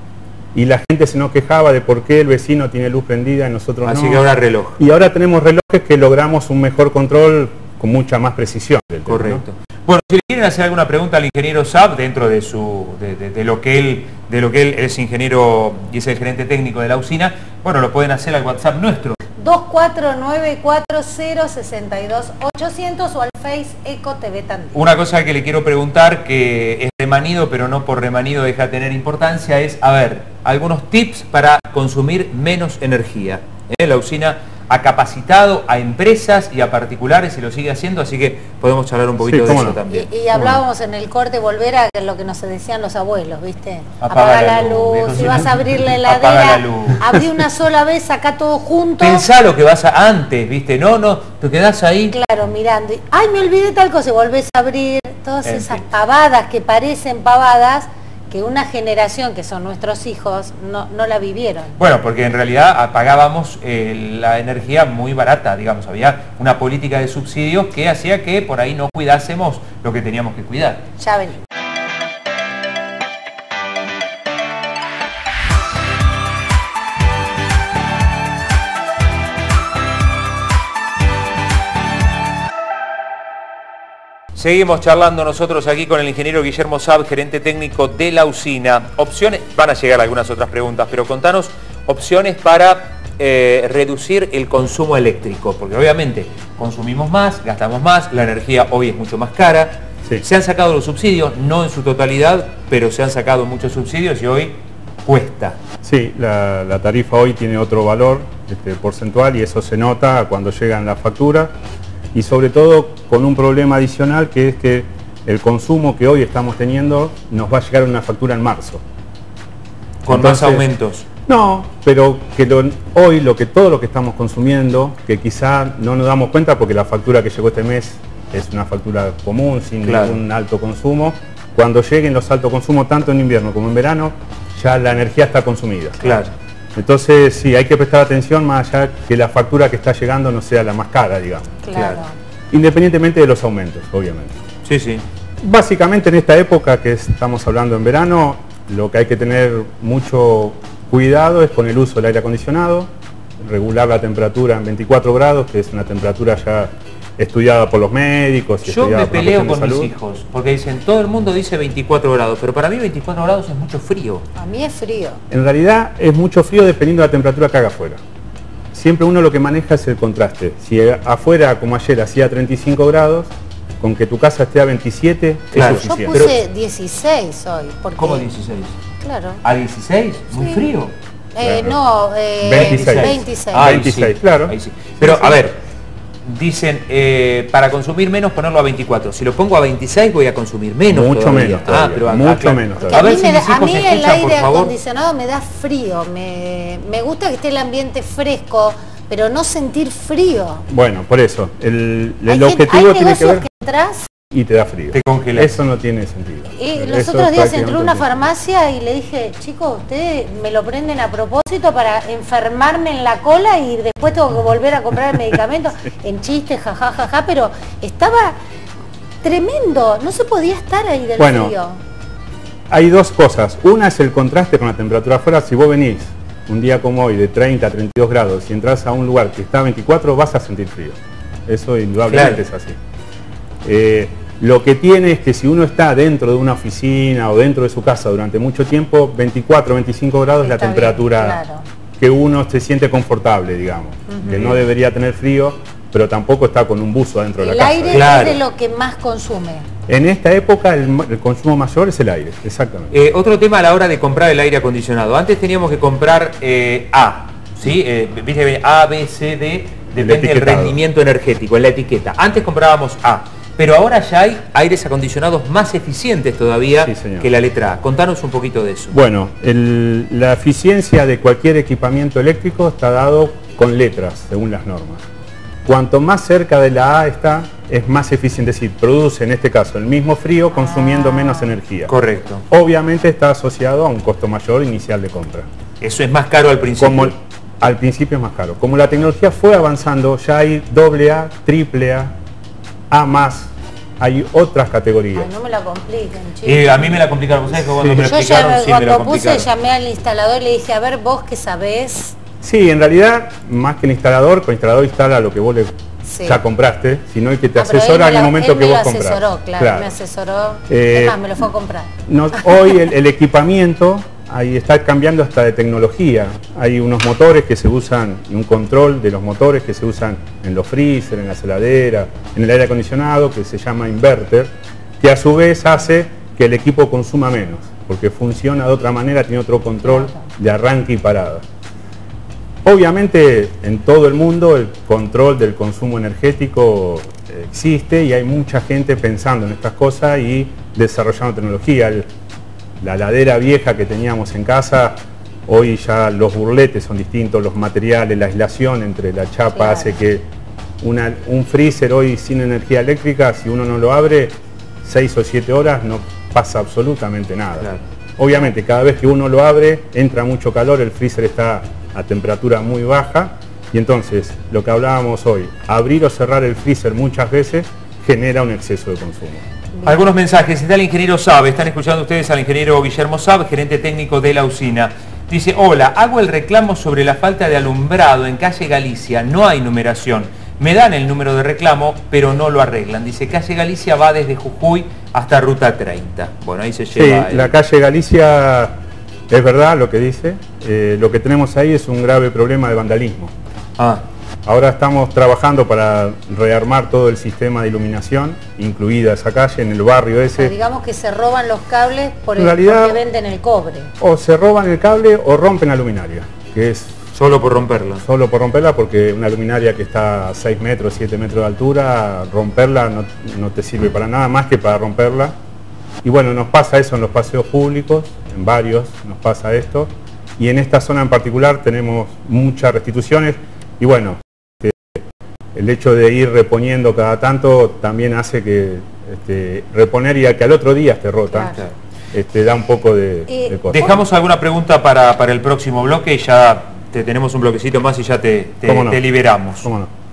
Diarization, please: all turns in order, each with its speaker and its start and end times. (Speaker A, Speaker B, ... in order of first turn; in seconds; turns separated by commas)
Speaker A: 0.5-9.4, Speaker B: 3.8-4.8, Speaker B: 9.1-19.2, Speaker C: 19.4-24.8, Speaker B: 24.7-40.1, Speaker A: 39.2-39.8, Speaker C: 39.5-49.3, Speaker B: 44.0-47.1, Speaker B: 49.0-52.1, Speaker C: 52.1-61.8, Speaker B: 55.4-55.8, Speaker B: 61.8-70.8, Speaker C: 71.0-71.4, Speaker B: 84.3-105.6, Speaker A: 105.8-111.5, Speaker A: 112.1-118.8, Speaker B: 120.0-121.0, Speaker A: 120.1-120.7, Speaker A: 121.2-136.1, Speaker B: 129.8-130.2, Speaker B: 136.0-136.3, Speaker A: 136.7-141.6, Speaker C: 141.6-142.1, Speaker B: 141.7-142.0, Speaker A: 142.5-144.4, Speaker B: 144.6-145.0, Speaker A: 145.4-159.9, Speaker B: 158.7-164.2, Speaker C: 164.3-165.2, Speaker A: 165.3-168.0, Speaker A: 168.7-176.3, Speaker B: 175.5-176.4, Speaker C: 175.6-178.3, Speaker B: 178.0-178.8, Speaker C: 179.0-179.4, Speaker B: 179.4-180.9, Speaker C: 180.3-180.7, Speaker C: 181.3-183.9, Speaker A: 181.4-181.8, Speaker A: 182.4-185.4, Speaker B: 182.5-185.6, Speaker B: 186.2-194.7, Speaker A: 190.9-193.0, Speaker C: 192.8-200.7, Speaker A: 200.7-203.4, Speaker C: 202.3-204.1, Speaker A: 204.3-208.3, Speaker B: 204.9-205.6, Speaker C: 206.5-218.4, Speaker C: 219.2-221.8, Speaker A: 221.2-221.5, Speaker A: 222.7-232.8, Speaker B: 232.1-232.4, Speaker A: 233.6-241.4, Speaker C: 240.4-241.6, Speaker A: 242.0-248.3, Speaker C: 244.1-244.6, Speaker C: 247.4-249.7, Speaker B: 247.9-248.4, Speaker A: 249.9-253.0, Speaker B: 252.9-268.9, Speaker A: 259.9-260.8, Speaker A: 266.8-267.3, Speaker A: 268.9-275.0, Speaker A: 275.6-281.9, Speaker C: 280.5-281.5, Speaker B: 281.9-282.4, Speaker A: 282.5-285.5, Speaker B: 285.8-287.1, Speaker A: 286.8-292.1, Speaker A: 292.9-295.3, Speaker C: 295.1-297.0, Speaker B: 296.4-299.5, Speaker A: 297.6-298.0, Speaker C: 297.8-302.1, Speaker A: 302.4-309.9, Speaker C: 306.0-306.4, Speaker C: 307.6-312.7, Speaker A: 310.7-311.2, Speaker A: 312.1-331.4, Speaker C: 329.8-330.2, Speaker A: 332.6-342.1, Speaker A: 342.8-350.3, Speaker C: 349.5-349.9, Speaker A: 350.8-369.4, Speaker C: 369.7-370.0, Speaker B: 369.8-387.5, Speaker A: 386.9-393.3, Speaker B: 393.8-394.0, Speaker A: 394.4-400.5, Speaker C: 400.4-403.9, Speaker A: 402.4-403.0, Speaker A: 404.0-407.0, Speaker B: 407.1-408.0, Speaker A: 408.0-415.4, Speaker A: 416.0-425.0, Speaker A: 425.5-431.5, Speaker C: 431.3-431.7, Speaker A: 432.1-434.0, Speaker C: 433.3-434.0, Speaker B: 433.7-439.7, Speaker A: 438.6-439.0, Speaker A: 439.6-439.9